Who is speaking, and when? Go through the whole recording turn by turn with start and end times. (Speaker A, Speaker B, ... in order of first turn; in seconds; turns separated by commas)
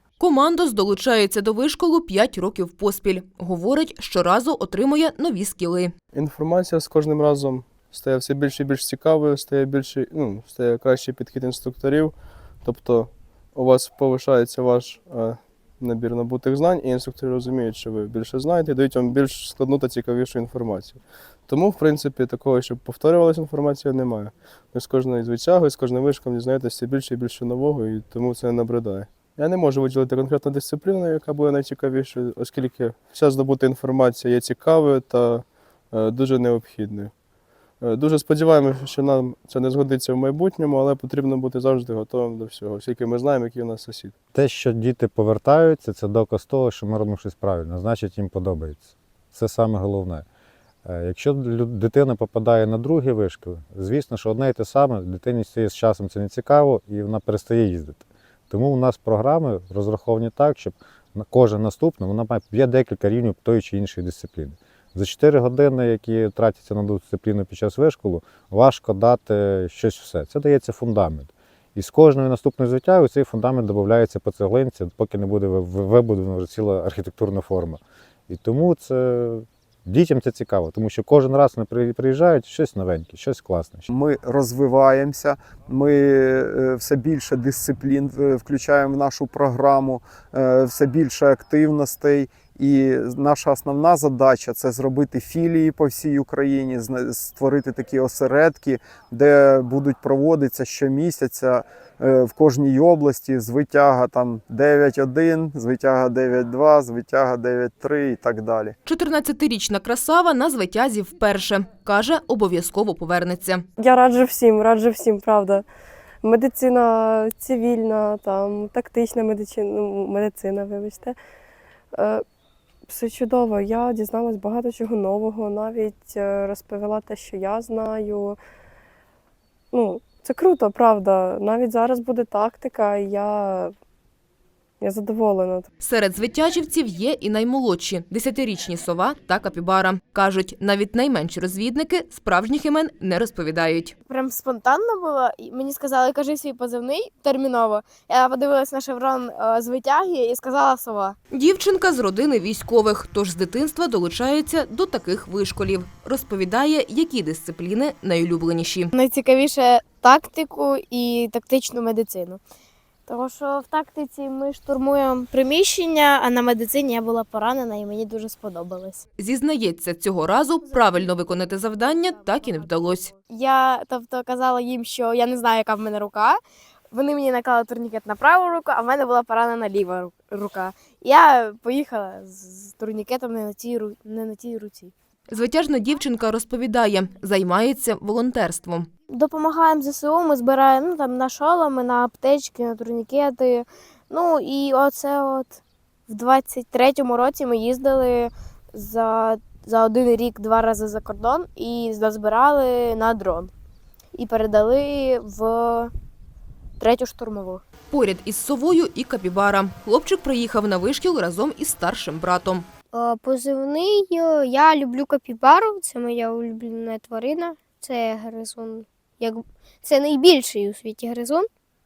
Speaker A: 0.2-5.9, Speaker B: 6.1-37.1, Speaker B: 37.8-44.1, Speaker C: 44.3-50.2, Speaker C: 50.9-83.9, Speaker D: 83.9-108.8, Speaker A: 108.9-113.7, Speaker E: 113.8-115.7, Speaker E: 116.2-121.2, Speaker E: 121.9-122.2, Speaker E: 122.9-128.4, Speaker E: 129.7-133.7, Speaker E: 134.8-135.7, Speaker A: 135.8-143.9, Speaker F: 144.1-151.2, Speaker A: 151.3-158.9, Speaker F: 158.9-162.4, Speaker F: 163.1-169.1, Speaker A: 169.2-173.1, Speaker F: 170.7-176.4, Speaker F: 176.9-184.9, Speaker A: 185.3-188.9, Speaker F: 189.1-203.5, Speaker F: 204.1-205.9, Speaker F: 206.8-207.6, Speaker A: 207.9-212.7, Speaker G: 212.9-221.5